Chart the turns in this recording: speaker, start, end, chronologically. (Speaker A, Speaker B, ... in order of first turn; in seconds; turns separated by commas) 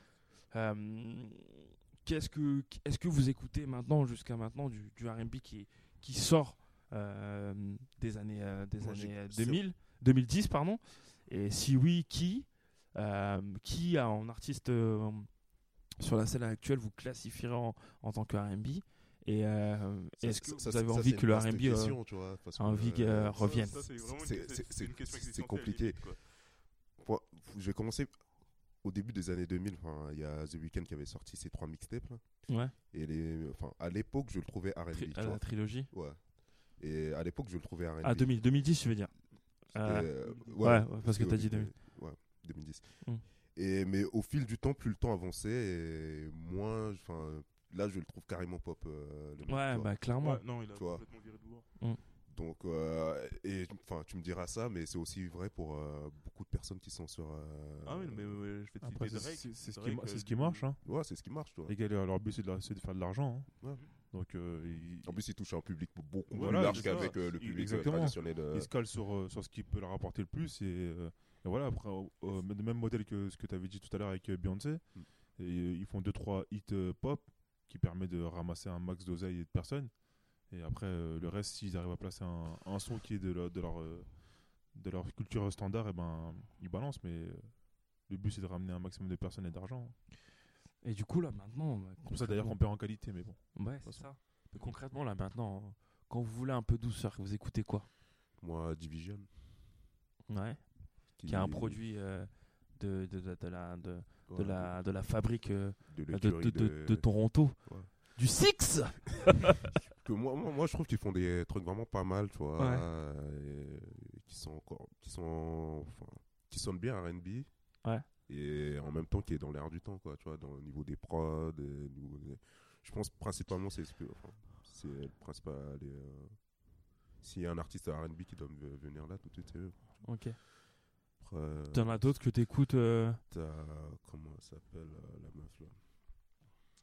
Speaker A: 0.5-23.8, Speaker B: 8.8-9.7, Speaker B: 20.2-50.0, Speaker C: 23.4-26.2, Speaker A: 32.5-32.7, Speaker A: 34.9-35.9, Speaker A: 38.0-42.4, Speaker A: 49.5-50.5, Speaker C: 50.2-51.7, Speaker B: 50.7-51.0, Speaker B: 52.3-58.4, Speaker C: 57.8-60.7, Speaker D: 58.8-65.2, Speaker B: 60.8-61.8, Speaker B: 65.0-68.7, Speaker D: 66.3-90.0, Speaker C: 66.3-67.2, Speaker A: 90.8-97.9, Speaker D: 92.0-94.7, Speaker B: 98.4-99.5, Speaker A: 100.3-109.3, Speaker B: 101.2-101.8, Speaker B: 104.3-107.9, Speaker B: 109.8-130.5, Speaker A: 112.6-112.9, Speaker A: 130.0-130.4, Speaker B: 131.2-132.4, Speaker A: 131.7-133.2, Speaker B: 133.3-136.3